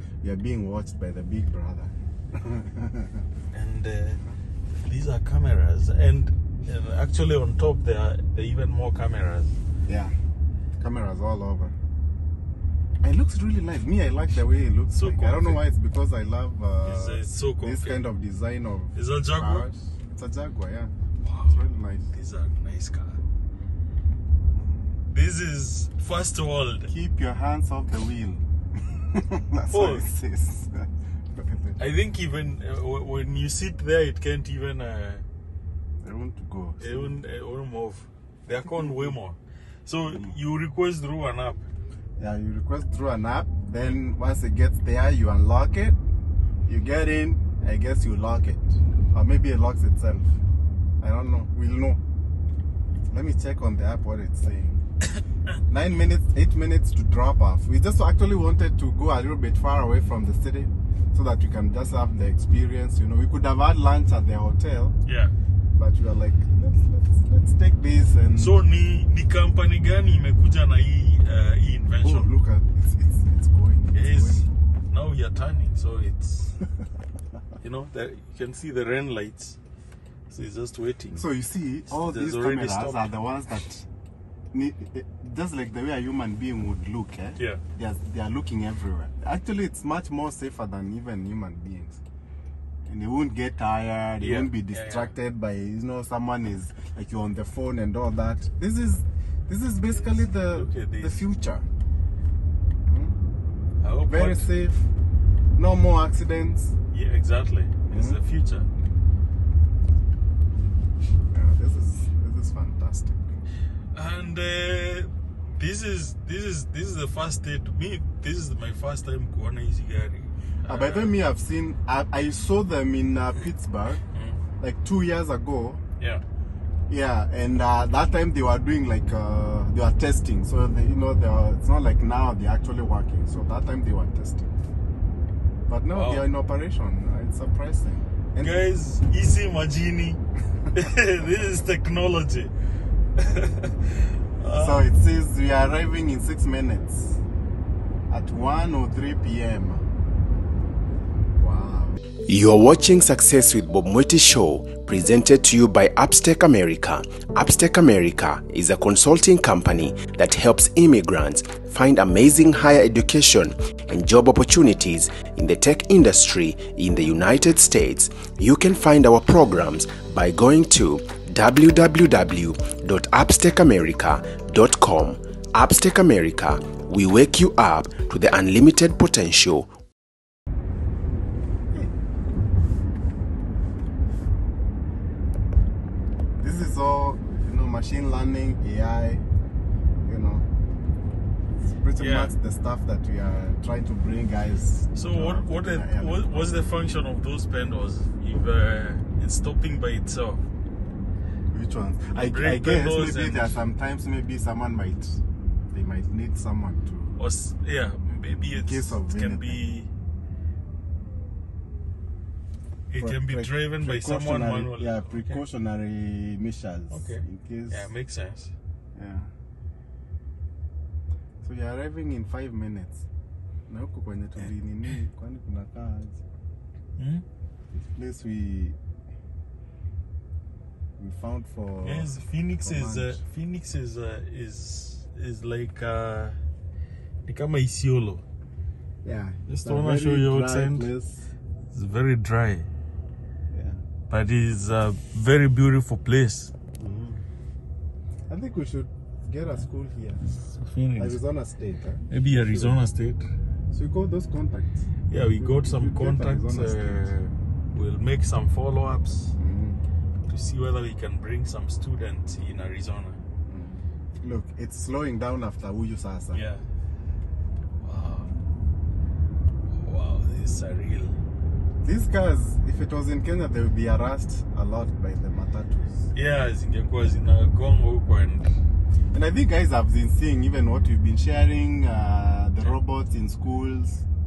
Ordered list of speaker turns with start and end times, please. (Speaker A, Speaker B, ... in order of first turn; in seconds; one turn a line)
Speaker A: 0.2-3.2
Speaker B: 3.5-4.2
Speaker B: 4.8-9.6
Speaker A: 9.9-10.1
Speaker A: 10.8-11.7
Speaker A: 13.0-20.9
Speaker B: 14.9-15.6
Speaker B: 16.8-18.0
Speaker B: 18.9-19.7
Speaker B: 21.2-21.6
Speaker A: 21.4-22.1
Speaker B: 22.1-23.2
Speaker B: 25.1-26.9
Speaker A: 26.9-31.8
Speaker B: 29.7-30.1
Speaker B: 31.8-35.2
Speaker A: 36.0-37.1
Speaker B: 36.8-41.6
Speaker A: 38.6-39.1
Speaker A: 42.2-46.0
Speaker A: 46.7-50.4
Speaker A: 51.0-52.0
Speaker A: 53.1-54.8
Speaker A: 55.7-64.9
Speaker B: 65.0-65.3
Speaker A: 65.7-68.6
Speaker B: 68.4-72.3
Speaker A: 72.0-74.5
Speaker B: 73.9-76.5
Speaker B: 77.6-79.6
Speaker B: 80.3-81.2
Speaker A: 81.1-83.9
Speaker B: 81.9-83.1
Speaker A: 84.5-92.0
Speaker A: 92.8-101.7
Speaker B: 94.2-95.1
Speaker B: 100.0-101.2
Speaker A: 102.9-103.2
Speaker B: 103.8-104.5
Speaker A: 104.0-104.9
Speaker A: 105.5-106.7
Speaker B: 106.9-108.7
Speaker A: 107.9-108.2
Speaker A: 111.3-113.3
Speaker B: 113.9-121.1
Speaker A: 120.7-124.0
Speaker B: 124.1-124.4
Speaker A: 124.6-125.8
Speaker A: 126.9-134.5
Speaker A: 135.7-138.6
Speaker B: 135.9-136.2
Speaker B: 138.4-140.2
Speaker B: 140.7-142.5
Speaker B: 143.2-144.9
Speaker A: 144.5-147.2
Speaker A: 148.1-149.8
Speaker A: 151.4-152.0
Speaker C: 152.2-179.7
Speaker A: 186.4-189.2
Speaker A: 190.0-190.5
Speaker A: 191.6-196.3
Speaker B: 192.0-192.3
Speaker B: 194.9-200.4
Speaker A: 201.5-207.1
Speaker B: 202.1-203.6
Speaker B: 207.2-209.9
Speaker A: 208.5-209.6
Speaker B: 212.9-215.4
Speaker A: 213.0-217.9
Speaker B: 216.9-218.5
Speaker A: 218.9-219.3
Speaker A: 221.4-223.0
Speaker A: 223.7-226.2
Speaker B: 227.0-227.2
Speaker A: 227.7-228.8
Speaker A: 231.0-232.1
Speaker B: 231.8-236.4
Speaker A: 232.6-233.2
Speaker B: 237.2-238.2
Speaker A: 239.0-241.3
Speaker B: 239.5-240.9
Speaker B: 241.7-242.7
Speaker A: 243.5-243.8
Speaker B: 244.1-246.5
Speaker A: 246.8-247.2
Speaker A: 248.3-250.3
Speaker B: 250.2-251.2
Speaker A: 250.9-252.8
Speaker B: 252.1-253.2
Speaker A: 253.7-257.1
Speaker B: 255.1-259.3
Speaker A: 259.4-259.8
Speaker B: 260.3-263.2
Speaker A: 263.5-266.4
Speaker B: 266.3-266.6
Speaker B: 267.8-268.3
Speaker B: 269.7-271.2
Speaker A: 271.8-276.0
Speaker B: 276.1-278.5
Speaker A: 279.1-284.1